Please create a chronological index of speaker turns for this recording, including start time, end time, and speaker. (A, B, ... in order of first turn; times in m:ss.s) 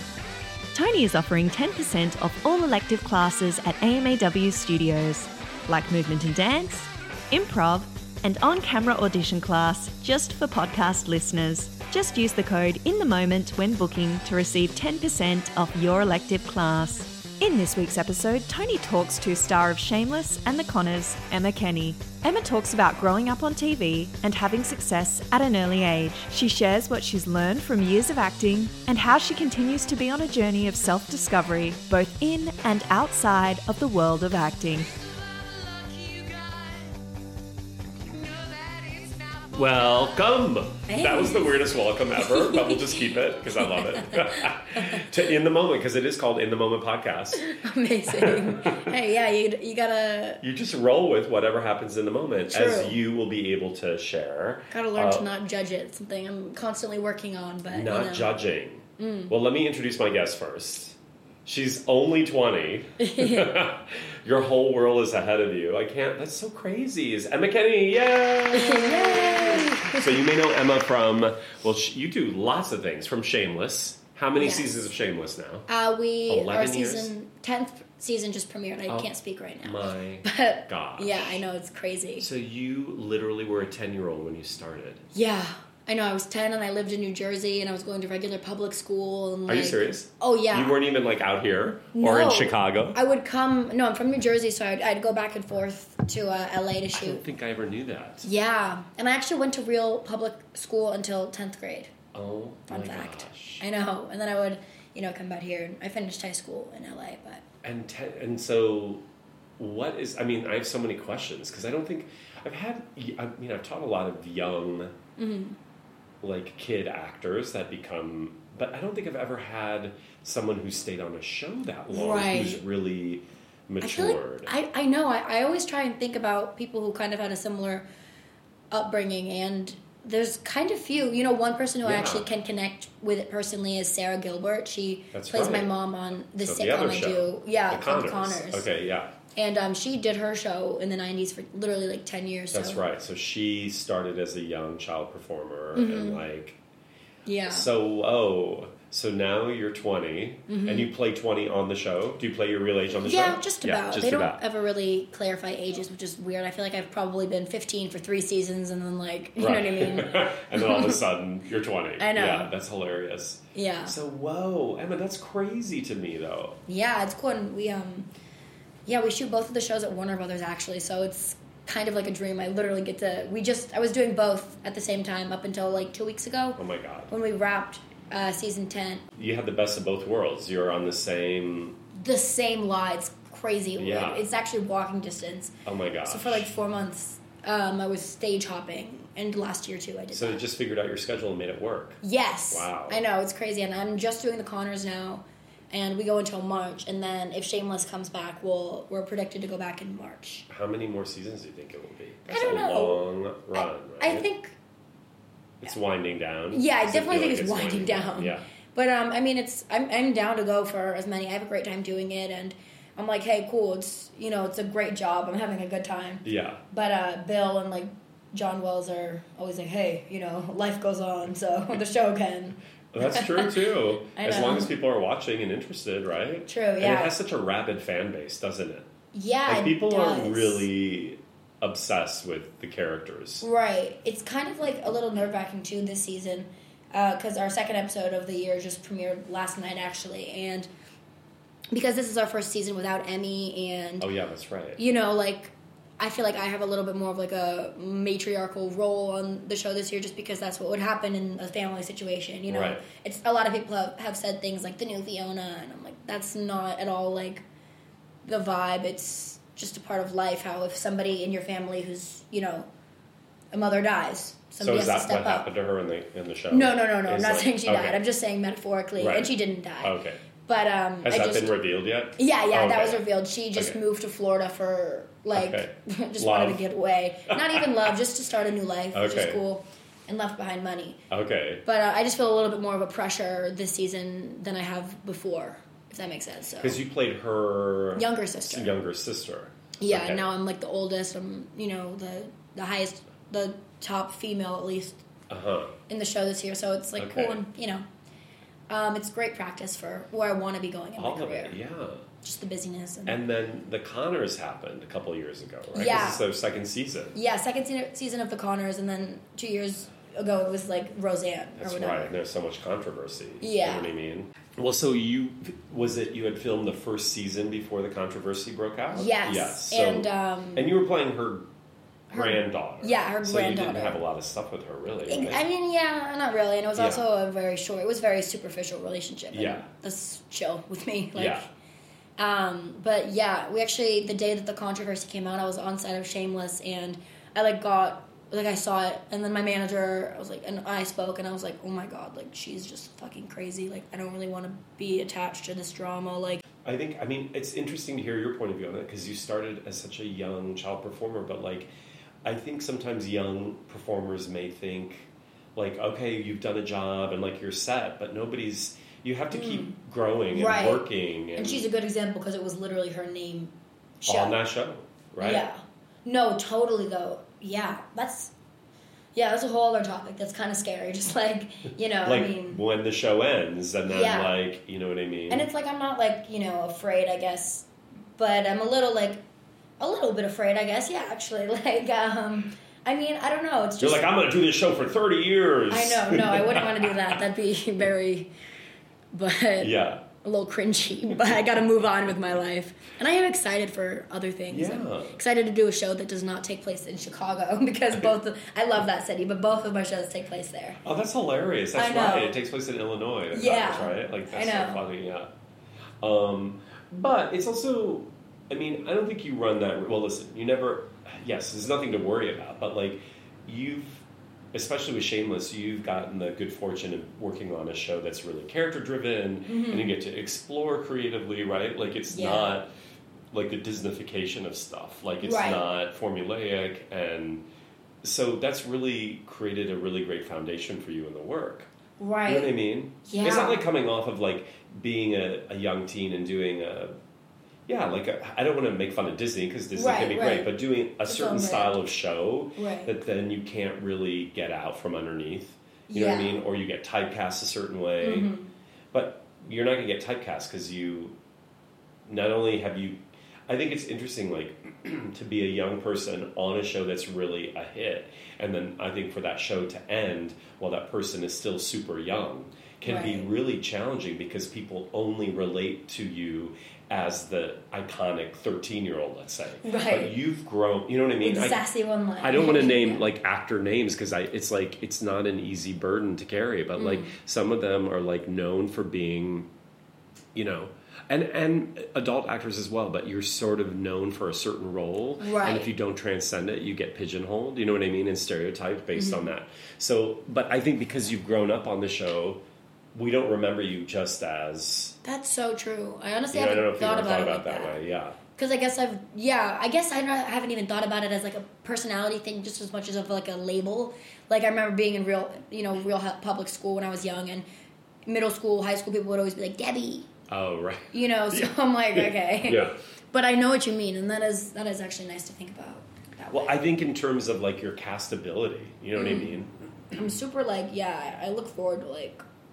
0:00.7-0:34.9 A
0:35.0-0:37.0 B
0:38.0-0:39.9 B
0:39.5-0:47.5 C
0:40.9-0:45.0 B
0:47.4-0:50.4 B
0:48.1-0:48.9 C
0:50.4-0:55.3 C
0:52.5-0:53.0 B
0:54.7-0:58.3 B
0:57.7-1:15.7 C
0:59.0-0:59.3 B
1:03.0-1:03.5 B
1:08.5-1:10.2 B
1:14.4-1:14.7 B
1:15.7-1:22.3 B
1:16.3-1:17.1 C
1:19.6-1:21.4 C
1:22.2-1:25.0 C
1:25.1-1:30.8 B
1:29.5-1:33.0 C
1:31.9-1:37.2 B
1:36.9-1:38.3 C
1:38.2-1:41.9 B
1:42.1-1:43.6 C
1:42.7-1:47.4 B
1:47.6-1:49.0 C
1:49.6-1:54.9 C
1:55.2-1:55.6 B
1:56.2-2:04.5 C
2:01.9-2:02.6 B
2:03.8-2:07.8 B
2:08.7-2:18.7 B
2:11.8-2:12.2 C
2:15.1-2:15.7 C
2:16.4-2:19.1 C
2:19.3-2:22.8 B
2:22.5-2:26.6 C
2:25.7-2:26.2 B
2:27.2-2:27.7 B
2:27.5-2:34.4 C
2:30.5-2:30.9 B
2:33.0-2:41.0 B
2:39.4-2:46.6 C
2:42.0-2:42.5 B
2:43.5-2:43.9 B
2:46.7-2:48.1 B
2:48.8-2:59.0 B
2:56.6-2:57.1 C
2:59.2-3:01.8 C
3:01.9-3:05.5 B
3:03.8-3:04.2 C
3:05.6-3:06.5 C
3:06.0-3:10.4 B
3:10.1-3:13.0 C
3:12.0-3:20.4 B
3:20.5-3:24.2 C
3:22.3-3:24.6 B
3:25.6-3:28.4 C
3:26.5-3:43.6 B
3:36.2-3:36.6 C
3:42.9-3:48.9 C
3:44.2-3:44.7 B
3:46.5-3:47.1 B
3:49.1-3:50.7 B
3:49.4-3:53.4 C
3:53.4-4:00.7 B
4:01.7-4:04.1 B
4:04.0-4:04.8 C
4:04.8-4:17.4 B
4:12.5-4:12.8 C
4:18.2-4:22.7 B
4:23.5-4:25.5 B
4:24.6-4:28.0 C
4:26.5-4:29.9 B
4:29.0-4:30.2 C
4:30.4-4:31.5 B
4:31.0-4:33.8 C
4:32.2-4:41.0 B
4:35.3-4:36.6 C
4:37.3-4:37.6 C
4:38.9-4:39.4 C
4:41.1-4:41.6 C
4:41.6-4:46.8 B
4:46.6-4:50.2 C
4:48.0-4:48.8 B
4:49.8-4:55.0 B
4:55.3-4:55.8 C
4:55.9-4:57.8 B
4:57.0-4:57.4 C
4:58.7-5:01.6 B
5:01.0-5:02.0 C
5:02.2-5:03.2 B
5:03.0-5:07.2 C
5:05.7-5:06.2 B
5:07.1-5:12.1 B
5:11.6-5:21.4 C
5:13.4-5:13.9 B
5:18.9-5:20.7 B
5:22.1-5:25.4 C
5:22.1-5:24.0 B
5:25.0-5:31.4 B
5:26.8-5:27.0 C
5:29.3-5:29.7 C
5:31.1-5:31.4 C
5:32.2-5:46.4 B
5:46.6-5:51.7 C
5:52.2-6:01.6 C
5:59.3-5:59.7 B
6:00.3-6:04.4 B
6:04.0-6:05.4 C
6:05.2-6:08.3 B
6:09.1-6:12.6 B
6:12.0-6:15.5 C
6:13.9-6:14.3 B
6:15.3-6:19.2 B
6:19.8-6:24.1 B
6:23.8-6:27.1 C
6:25.7-6:28.3 B
6:29.1-6:40.8 B
6:29.6-6:30.0 C
6:34.5-6:35.2 C
6:40.8-6:45.3 C
6:41.7-6:42.4 B
6:43.3-6:44.8 B
6:46.0-7:02.7 C
6:59.5-6:59.9 B
7:02.1-7:02.6 B
7:03.3-7:07.4 C
7:05.2-7:05.6 B
7:08.0-7:11.7 C
7:12.0-7:12.5 B
7:12.2-7:16.9 C
7:13.0-7:13.6 B
7:17.7-7:28.3 C
7:19.7-7:20.5 B
7:21.0-7:21.8 B
7:22.6-7:22.9 B
7:25.9-7:26.4 B
7:28.0-7:28.5 B
7:28.9-7:31.2 C
7:32.0-7:51.6 C
7:42.8-7:43.3 B
7:49.6-7:50.2 B
7:51.2-7:53.1 B
7:52.2-7:59.5 C
7:56.8-7:57.1 B
8:00.3-8:12.4 C
8:05.2-8:05.7 B
8:08.9-8:09.3 B
8:12.9-8:15.0 C
8:15.0-8:17.8 B
8:16.3-8:18.2 C
8:18.4-8:27.4 B
8:28.0-8:30.1 B
8:30.3-8:32.7 C
8:30.9-8:36.6 B
8:36.3-8:39.5 C
8:39.0-8:39.3 B
8:39.9-8:42.2 B